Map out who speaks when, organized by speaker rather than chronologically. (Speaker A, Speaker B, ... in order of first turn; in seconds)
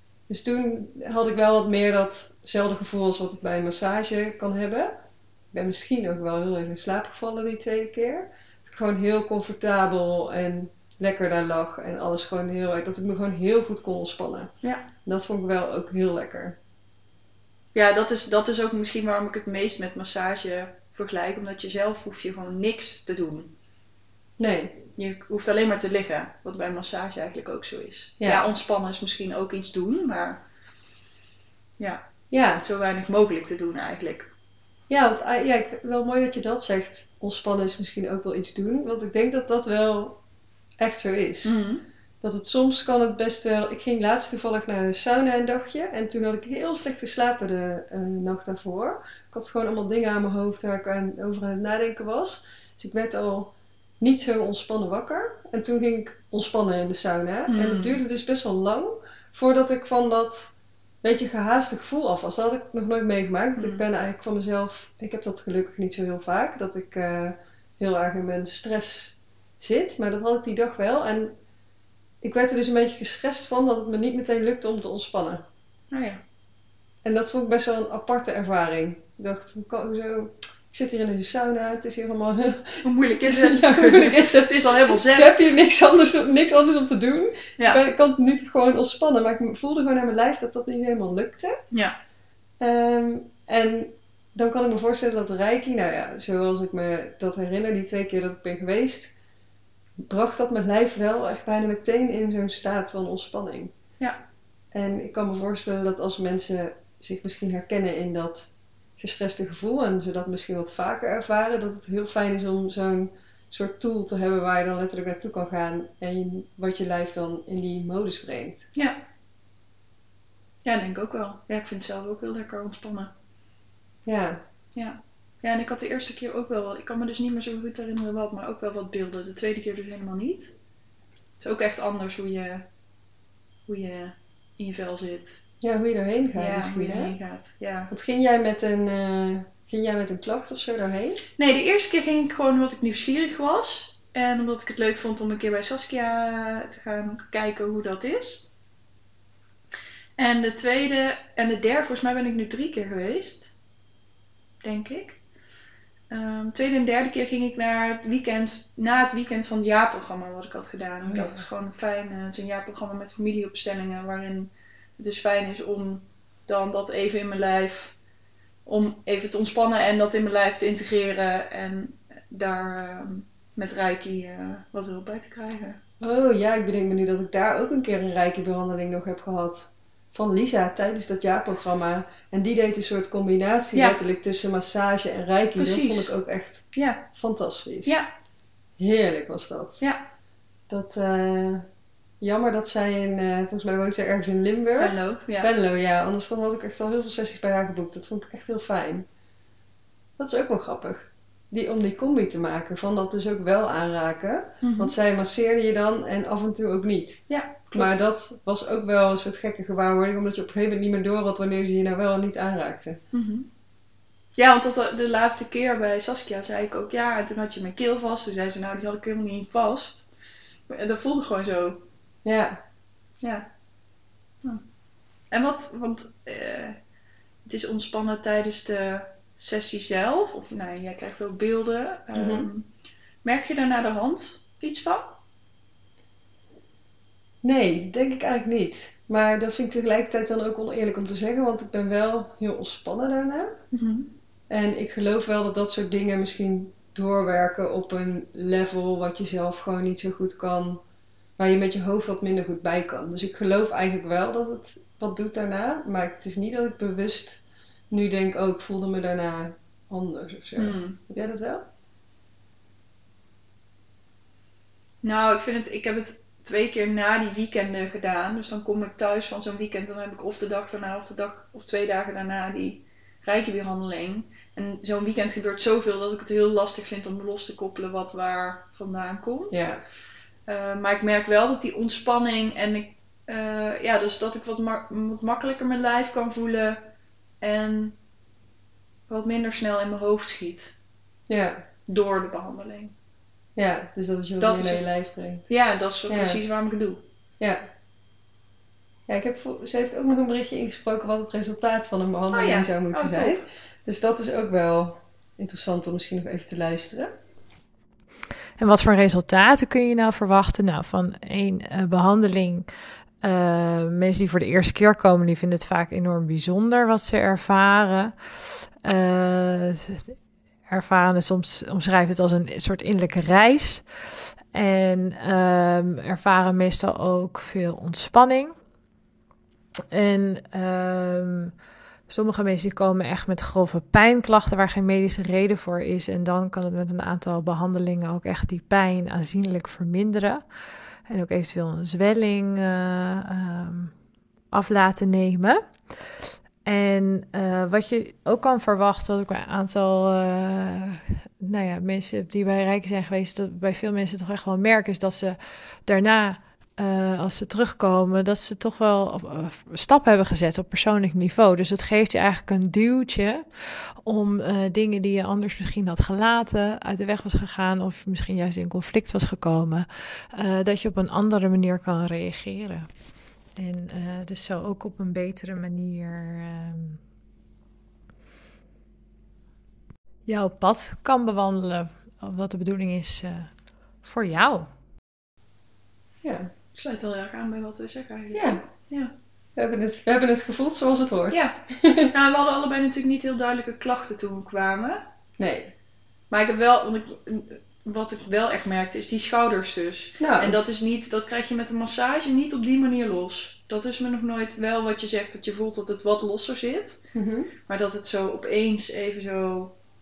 Speaker A: 0.3-5.0, 5.5-16.6, 24.4-24.8, 32.3-32.6, 34.9-40.2, 40.8-41.6, 42.2-60.5, 61.0-71.4, 72.2-75.5, 77.0-91.6, 92.6-99.1, 100.0-103.7, 104.7-118.7, 124.0-124.4, 135.6-137.1, 137.9-141.2, 161.1-161.4, 176.0-188.0, 188.8-189.8, 190.7-191.7, 192.2-199.1, 200.2-213.0, 222.2-222.6, 232.1-232.5, 237.4-243.6, 244.5-250.8, 251.4-261.6, 279.5-279.8, 291.3-291.6, 293.6-295.5, 296.1-296.4, 297.4-297.6, 299.1-307.1, 386.2-386.5, 388.3-388.6, 389.6-392.1, 395.4-395.7, 400.2-400.6, 407.1-407.5
Speaker B: 14.6-14.9, 17.8-23.5, 25.0-30.4, 31.8-32.0, 32.6-34.3, 41.4-41.9, 57.5-58.0, 63.6-63.8, 75.9-76.2, 82.8-85.4, 91.7-92.0, 120.6-123.1, 124.8-130.6, 131.4-132.7, 133.7-135.4, 136.3-137.9, 141.4-148.4, 150.2-153.6, 154.6-155.2, 156.1-167.9, 168.7-175.8, 183.7-184.0, 185.6-186.1, 186.7-187.1, 187.8-188.1, 194.8-195.5, 204.6-204.9, 207.3-208.0, 213.1-213.5, 214.4-220.1, 220.7-221.8, 223.2-223.5, 225.3-226.8, 227.4-232.7, 233.2-235.2, 243.7-244.1, 260.6-261.0, 265.0-279.7, 280.5-286.9, 287.4-288.0, 289.1-290.8, 291.9-292.9, 294.4-294.9, 295.5-297.0, 302.3-303.4, 386.8-389.1, 391.3-395.1, 396.3-407.0, 407.7-409.8
Speaker C: 308.6-328.6, 329.9-377.0, 380.2-384.7